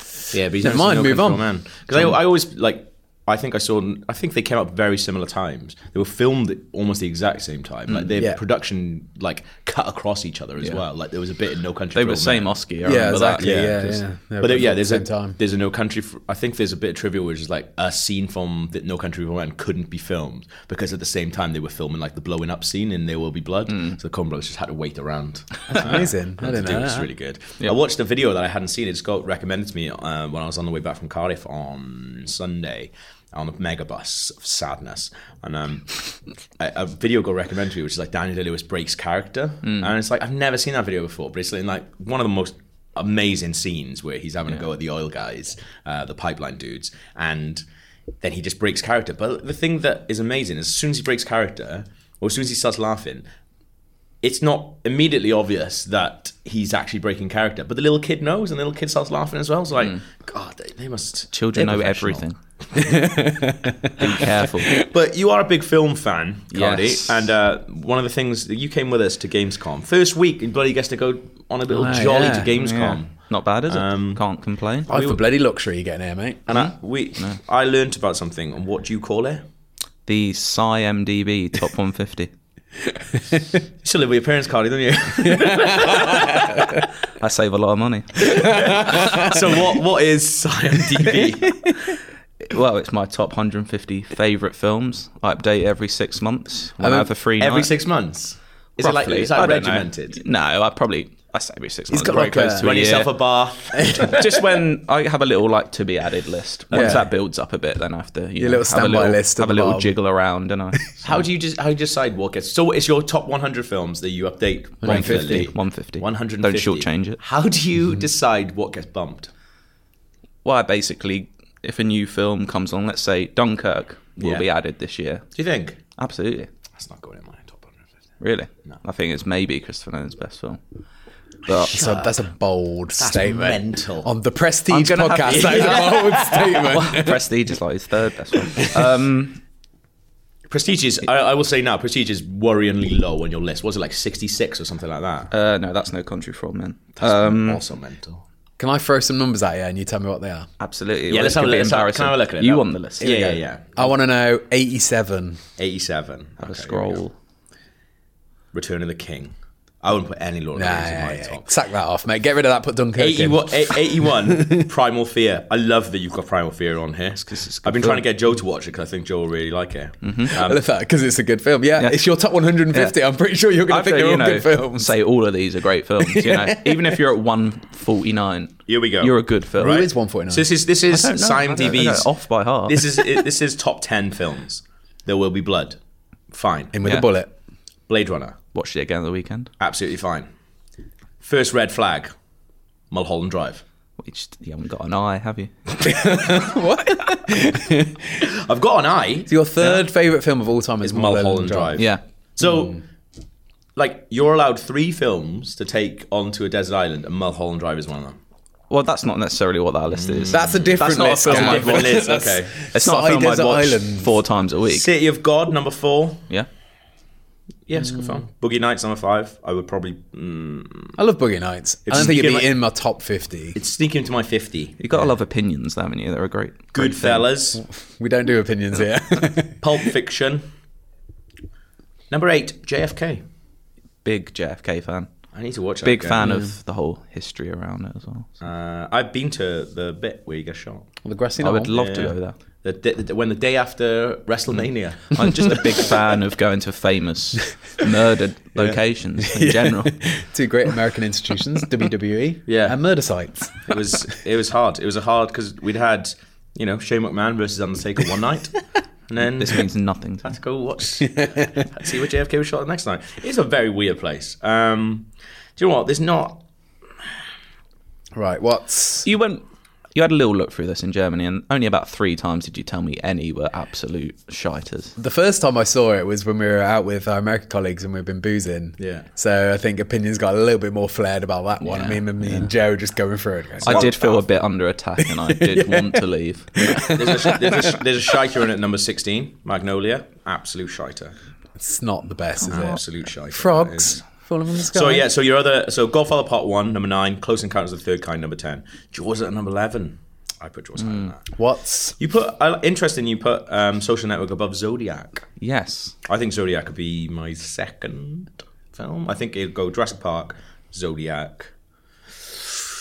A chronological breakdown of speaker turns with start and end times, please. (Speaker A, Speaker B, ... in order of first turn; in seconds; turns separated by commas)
Speaker A: 0.3-12.5, Speaker B: 0.5-2.1, Speaker C: 11.9-14.0, Speaker B: 12.8-15.4, Speaker A: 13.4-13.8, Speaker A: 14.4-36.0, Speaker B: 25.7-27.1, Speaker A: 36.6-47.6, Speaker C: 39.6-39.9, Speaker A: 48.2-53.3, Speaker A: 54.2-62.2, Speaker C: 61.3-62.4, Speaker B: 62.8-64.0, Speaker C: 64.0-64.8, Speaker A: 64.7-73.1, Speaker C: 66.5-67.3, Speaker B: 71.7-72.5, Speaker C: 72.5-74.9, Speaker A: 73.7-74.2, Speaker A: 74.9-75.2, Speaker B: 74.9-76.4, Speaker A: 76.5-79.4, Speaker C: 76.5-77.4, Speaker C: 80.1-82.3, Speaker A: 83.8-86.5, Speaker B: 85.5-85.9, Speaker C: 87.1-89.4, Speaker A: 88.3-91.7, Speaker C: 92.5-97.7, Speaker B: 96.8-97.1, Speaker A: 97.4-100.2, Speaker C: 98.8-103.2, Speaker B: 101.9-102.9, Speaker A: 102.0-104.4, Speaker C: 104.0-111.0, Speaker B: 106.7-107.1, Speaker A: 106.7-107.0, Speaker B: 108.4-110.0, Speaker A: 111.0-119.3, Speaker B: 114.8-115.5, Speaker C: 114.8-117.2, Speaker C: 120.4-125.3, Speaker A: 124.2-124.4, Speaker A: 125.3-125.8, Speaker C: 126.0-126.5, Speaker A: 126.7-127.8, Speaker C: 128.2-130.6, Speaker C: 131.4-132.0, Speaker B: 131.6-137.2, Speaker A: 133.0-134.1, Speaker C: 134.7-139.4, Speaker A: 135.2-136.4, Speaker A: 140.5-145.3, Speaker C: 145.3-147.6, Speaker A: 147.0-148.2, Speaker B: 148.6-150.5, Speaker C: 150.6-153.1, Speaker A: 151.1-153.9, Speaker B: 153.0-155.4, Speaker A: 155.6-157.0, Speaker C: 156.4-157.1, Speaker A: 158.5-161.5, Speaker B: 160.5-164.7, Speaker A: 162.9-170.6, Speaker C: 167.3-168.1, Speaker C: 170.0-170.3, Speaker B: 170.3-174.9, Speaker C: 171.8-172.1, Speaker C: 172.7-172.9, Speaker C: 173.7-179.9, Speaker B: 176.0-176.8, Speaker A: 178.7-182.1, Speaker B: 179.6-180.5, Speaker C: 180.9-183.2, Speaker A: 182.7-185.8, Speaker A: 186.3-186.8, Speaker B: 186.7-187.3, Speaker A: 187.9-188.4, Speaker C: 188.5-189.5, Speaker A: 189.6-190.3, Speaker A: 191.2-192.1, Speaker A: 192.9-193.6, Speaker C: 194.0-195.9, Speaker B: 195.8-198.2, Speaker A: 198.2-199.3, Speaker B: 199.2-201.8, Speaker A: 200.8-202.8, Speaker B: 202.4-202.7, Speaker A: 203.8-208.2, Speaker C: 208.7-212.1, Speaker A: 209.9-212.6, Speaker B: 210.3-214.2, Speaker C: 212.7-214.9, Speaker A: 214.7-216.2, Speaker A: 217.7-221.0, Speaker B: 220.9-223.6, Speaker A: 221.8-222.5, Speaker A: 223.5-224.8, Speaker C: 224.8-227.3, Speaker A: 226.7-227.6, Speaker B: 227.5-229.7, Speaker A: 229.6-230.5, Speaker A: 232.1-233.2, Speaker C: 234.0-235.1, Speaker A: 235.3-236.2, Speaker C: 235.8-238.3, Speaker B: 236.2-236.5, Speaker A: 238.4-240.8, Speaker B: 241.0-242.1, Speaker C: 241.4-242.3, Speaker A: 241.7-245.5, Speaker C: 245.1-250.0, Speaker B: 248.6-253.7, Speaker A: 252.5-252.8, Speaker A: 253.6-258.6, Speaker A: 259.1-259.6, Speaker C: 259.4-260.3, Speaker A: 260.2-266.4, Speaker B: 261.2-261.5, Speaker B: 268.1-269.1, Speaker C: 269.0-274.9, Speaker B: 275.0-283.9, Speaker A: 278.8-279.1, Speaker C: 281.6-282.5, Speaker A: 283.6-284.2, Speaker C: 283.6-287.4, Speaker B: 285.2-286.0, Speaker A: 286.6-291.1, Speaker B: 286.6-287.6, Speaker B: 291.6-295.1, Speaker C: 292.4-292.8, Speaker A: 292.5-294.0, Speaker A: 294.7-301.2, Speaker C: 300.8-301.1, Speaker B: 301.4-301.9, Speaker A: 302.0-305.3, Speaker C: 305.4-305.9, Speaker A: 306.1-311.5